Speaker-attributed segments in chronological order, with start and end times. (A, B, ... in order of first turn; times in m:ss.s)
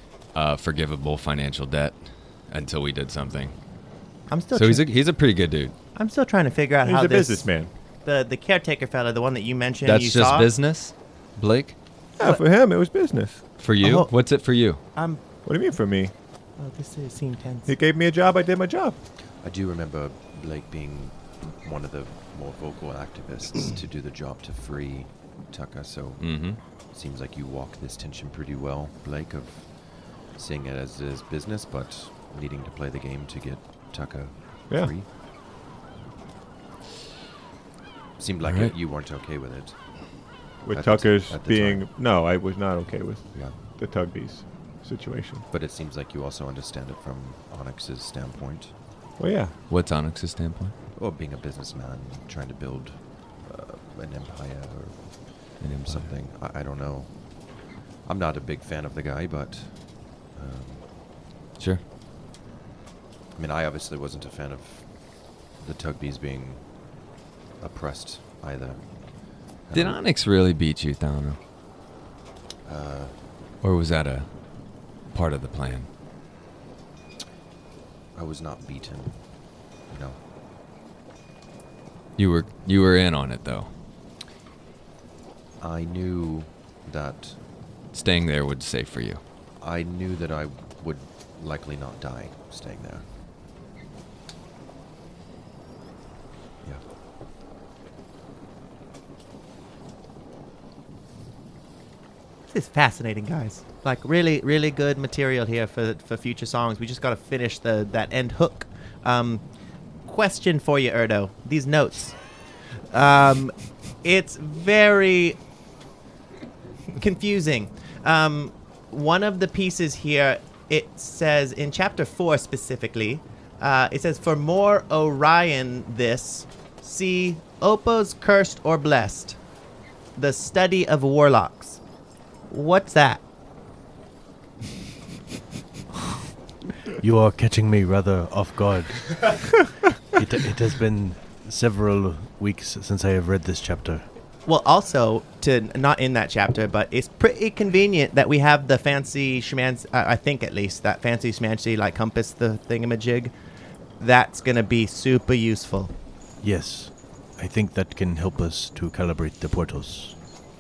0:00.3-0:02.0 A
0:02.5-0:03.6 A
0:04.3-0:04.9 B
0:04.5-0:05.7 A
0:05.9-0:07.5 B
0:06.8-0:07.7 C
0:08.0-0:10.5 B
0:09.8-0:11.8 A
0:12.2-0:13.4 C
0:13.6-0:14.8 A
0:13.8-0:14.1 B
0:14.9-0:15.2 B
0:15.4-0:16.1 C
0:16.6-0:17.7 B
0:17.7-0:19.0 C
0:19.4-0:35.1 D
0:26.2-0:26.6 A
0:38.2-0:39.7 D
0:38.4-0:38.7 A
0:40.6-0:45.4 C
0:40.7-0:41.8 D
0:45.5-0:48.7 D
0:49.2-0:49.5 C
0:49.7-0:50.7 A
0:51.0-0:57.3 D
0:55.6-0:56.1 A
0:58.0-1:00.8 D
1:03.4-1:04.8 D
1:05.6-1:06.6 D
1:07.6-1:08.8 D
1:09.7-1:10.0 D
1:09.7-1:11.4 A
1:12.6-1:13.1 D
1:13.6-1:14.3 A
1:15.1-1:15.9 A
1:18.1-1:19.1 D
1:19.9-1:20.2 D
1:22.2-1:23.7 A
1:25.6-1:27.4 D
1:27.9-1:29.2 A
1:29.6-1:33.0 D
1:42.5-1:49.4 B
1:50.0-1:52.2 B
1:52.9-1:55.4 B
1:56.9-2:09.4 B
2:10.2-2:11.8 B
2:12.5-2:13.2 B
2:17.0-2:24.0 E
2:24.4-2:33.3 B
2:34.0-2:35.9 B
2:36.4-2:40.1 E